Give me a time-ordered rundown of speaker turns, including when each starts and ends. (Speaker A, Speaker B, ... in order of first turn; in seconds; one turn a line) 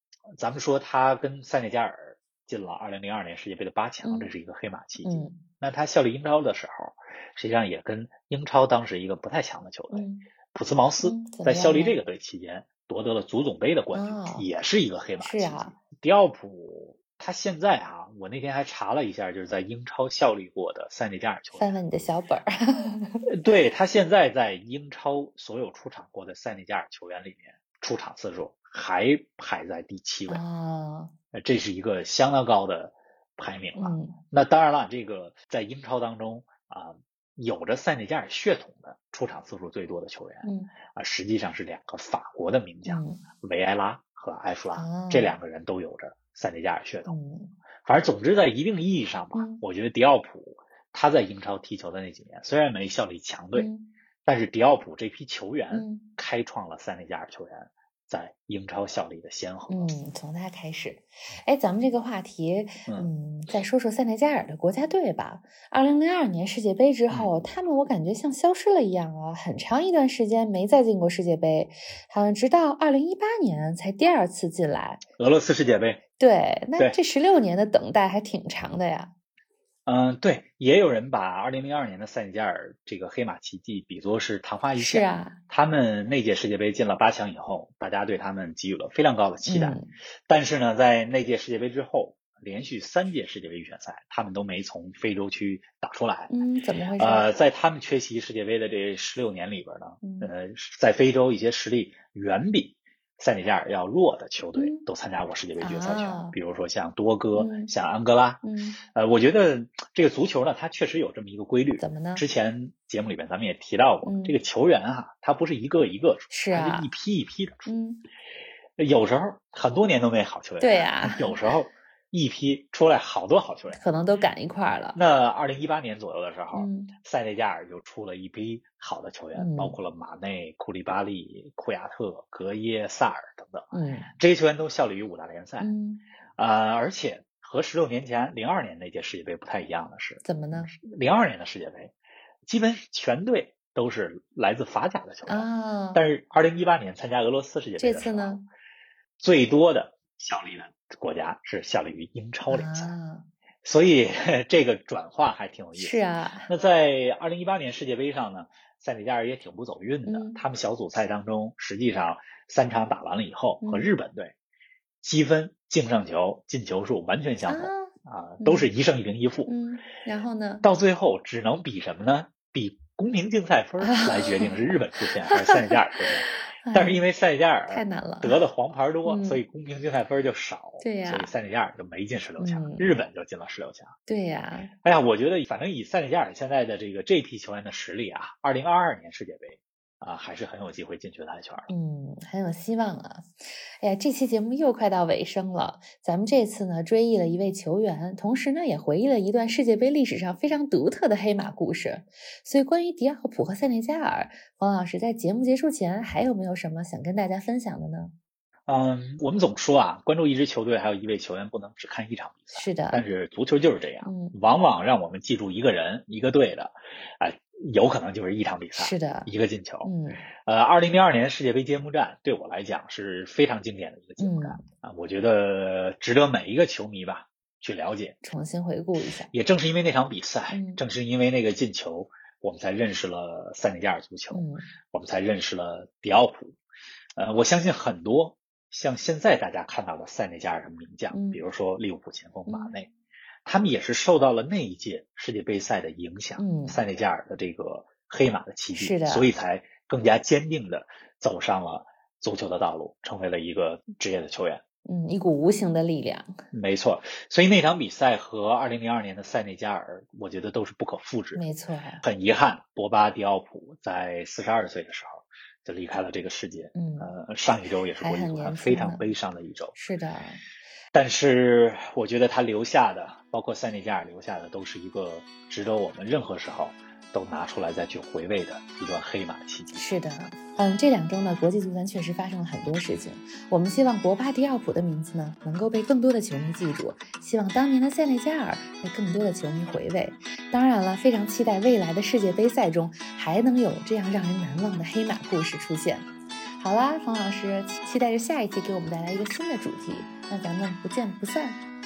Speaker A: 0.3-21.7
Speaker B: 4.0-4.3
Speaker B: 5.0-5.4
Speaker B: 9.9-10.2
Speaker B: 11.0-12.0
Speaker B: 13.9-14.5
Speaker B: 15.2-15.8
Speaker B: 21.6-23.3
Speaker A: 23.3-30.4
Speaker B: 30.3-31.1
Speaker A: 31.3-47.1
Speaker B: 33.8-34.2
Speaker B: 40.4-40.7
Speaker B: 42.9-43.2
Speaker B: 44.7-45.3
Speaker B: 47.1-47.5
Speaker A: 47.8-53.7
Speaker B: 49.3-49.6
Speaker B: 53.5-53.9
Speaker A: 54.2-59.9
Speaker B: 55.7-56.1
Speaker B: 59.7-75.0
Speaker A: 62.9-63.1
Speaker A: 75.2-76.0
Speaker B: 76.2-79.1
Speaker A: 79.8-96.3
Speaker B: 84.8-85.4
Speaker B: 89.5-89.9
Speaker B: 96.3-97.3
Speaker A: 97.0-117.7
Speaker B: 100.0-100.3
Speaker B: 104.6-104.9
Speaker B: 105.6-106.3
Speaker B: 107.3-107.7
Speaker B: 108.4-108.8
Speaker B: 111.8-112.2
Speaker B: 114.0-114.4
Speaker B: 116.3-116.9
Speaker B: 117.7-118.0
Speaker A: 118.8-123.8
Speaker B: 120.6-121.4
Speaker B: 123.7-125.0
Speaker A: 124.9-135.7
Speaker B: 126.5-126.9
Speaker B: 129.3-129.8
Speaker B: 133.7-134.1
Speaker B: 135.6-136.0
Speaker A: 136.4-141.9
Speaker B: 140.2-140.7
Speaker A: 142.4-148.4
Speaker B: 145.3-146.0
Speaker B: 147.8-148.4
Speaker A: 149.2-152.9
Speaker B: 152.5-153.3
Speaker A: 153.6-164.3
Speaker B: 155.8-156.5
Speaker B: 160.1-160.4
Speaker B: 163.6-163.9
Speaker A: 165.0-169.5
Speaker B: 167.4-168.7
Speaker B: 169.5-170.7
Speaker A: 170.6-183.9
Speaker B: 173.8-174.5
Speaker B: 175.2-176.0
Speaker B: 176.6-177.0
Speaker B: 177.7-178.4
Speaker B: 179.0-179.4
Speaker B: 180.8-181.3
Speaker B: 182.4-182.9
Speaker B: 184.1-184.7
Speaker A: 184.8-191.7
Speaker B: 191.7-208.1
Speaker A: 208.7-228.2
Speaker B: 212.5-213.0
Speaker B: 214.0-214.3
Speaker B: 218.8-219.3
Speaker B: 219.8-220.2
Speaker B: 224.2-224.6
Speaker B: 228.2-229.3
Speaker A: 229.3-236.6
Speaker B: 230.5-230.8
Speaker B: 234.3-234.7
Speaker A: 237.2-242.9
Speaker B: 241.1-241.4
Speaker B: 242.5-242.7
Speaker A: 243.4-254.6
Speaker B: 246.4-246.8
Speaker B: 248.7-249.3
Speaker B: 254.8-256.4
Speaker A: 256.5-261.4
Speaker B: 261.3-262.0
Speaker A: 262.0-269.8
Speaker B: 266.7-267.1
Speaker B: 268.0-269.1
Speaker B: 269.7-270.4
Speaker A: 270.9-279.8
Speaker B: 279.7-296.1
Speaker B: 296.6-301.6